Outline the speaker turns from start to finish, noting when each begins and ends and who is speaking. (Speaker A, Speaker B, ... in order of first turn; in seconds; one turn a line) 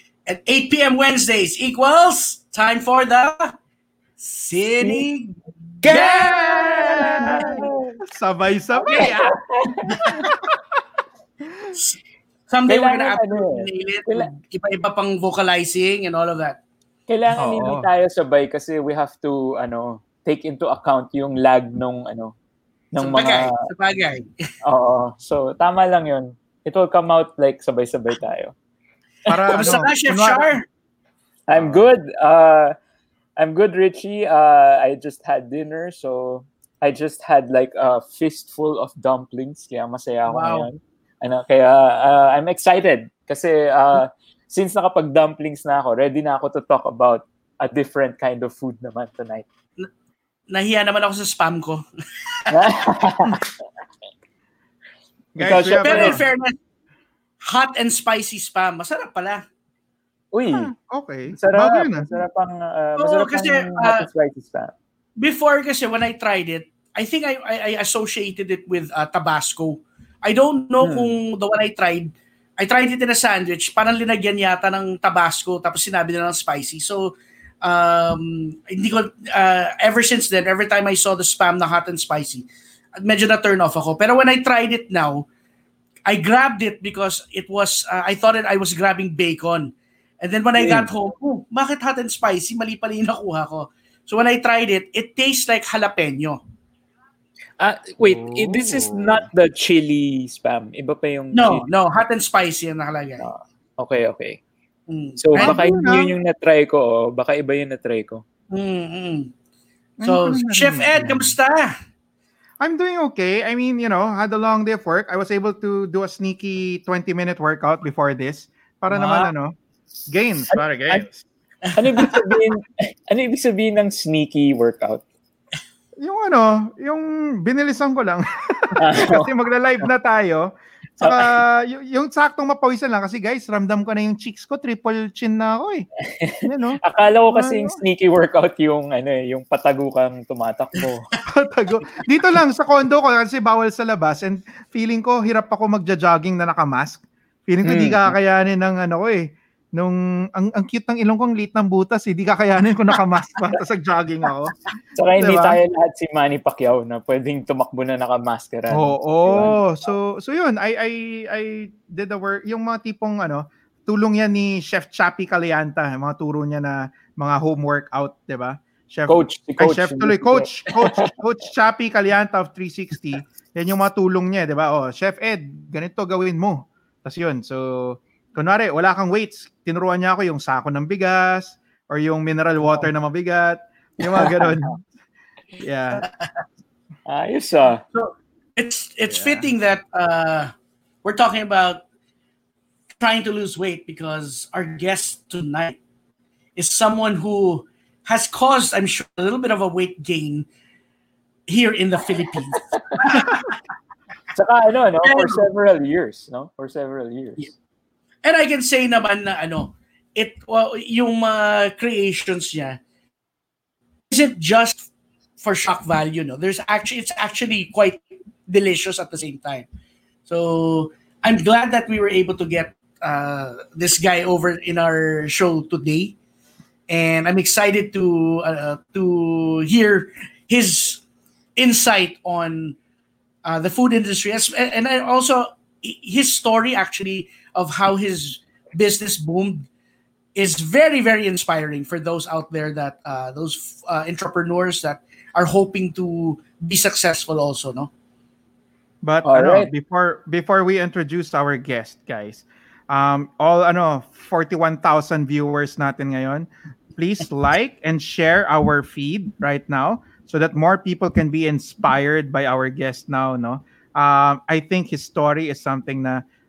Speaker A: 0.2-3.5
Speaker A: 4.2-7.7
Speaker B: 5.8-9.3
Speaker C: 5.9-8.0
Speaker A: 8.8-9.2
Speaker C: 8.9-10.3
Speaker A: 9.9-10.3
Speaker B: 10.1-10.6
Speaker A: 11.7-16.6
Speaker C: 12.7-14.3
Speaker C: 17.1-22.3
Speaker B: 17.4-17.9
Speaker C: 22.9-23.6
Speaker A: 23.0-24.3
Speaker C: 24.6-28.5
Speaker B: 29.3-30.5
Speaker A: 29.5-30.6
Speaker C: 31.5-32.7
Speaker B: 31.5-31.8
Speaker C: 33.4-49.4
Speaker A: 40.3-40.7
Speaker A: 50.5-52.6
Speaker C: 52.5-53.4
Speaker B: 55.3-56.2
Speaker C: 55.4-56.2
Speaker A: 55.8-56.5
Speaker A: 57.4-59.4
Speaker C: 60.3-60.7
Speaker B: 60.5-62.1
Speaker C: 61.3-64.7
Speaker A: 63.0-64.1
Speaker A: 65.2-82.5
Speaker C: 70.8-71.2
Speaker A: 83.0-85.3
Speaker A: 86.1-96.4
Speaker C: 90.6-90.9
Speaker C: 97.6-101.7
Speaker B: 98.0-99.3
Speaker A: 101.3-103.2
Speaker C: 103.2-104.4
Speaker A: 104.9-105.6
Speaker C: 105.2-108.2
Speaker B: 105.3-106.1
Speaker A: 108.5-109.3
Speaker B: 110.0-111.3
Speaker A: 110.0-111.7
Speaker B: 112.6-119.5
Speaker A: 118.9-119.3
Speaker B: 120.1-121.2
Speaker C: 120.5-121.0
Speaker C: 121.7-125.0
Speaker A: 121.9-122.4
Speaker B: 126.0-135.9
Speaker C: 128.8-129.3
Speaker C: 136.2-141.0
Speaker B: 136.4-137.8
Speaker B: 141.3-154.5
Speaker C: 147.6-148.1
Speaker C: 154.9-159.6
Speaker B: 155.1-155.6
Speaker B: 158.7-184.9
Speaker C: 169.1-171.1
Speaker C: 184.1-184.7
Speaker B: 185.6-186.0
Speaker A: 185.9-186.4
Speaker C: 187.1-187.8
Speaker A: 187.9-190.5
Speaker B: 189.1-189.5
Speaker A: 191.0-191.8
Speaker A: 193.0-195.8
Speaker A: 196.6-200.5
Speaker A: 201.5-203.5
Speaker B: 203.1-203.4
Speaker C: 204.3-207.5
Speaker A: 205.0-205.4
Speaker A: 208.2-212.8
Speaker A: 214.1-214.9
Speaker A: 215.4-219.7
Speaker A: 220.2-226.1
Speaker A: 226.9-231.0
Speaker A: 231.6-232.8
Speaker A: 233.4-239.7
Speaker A: 240.3-247.9
Speaker B: 249.0-266.2
Speaker C: 249.2-249.7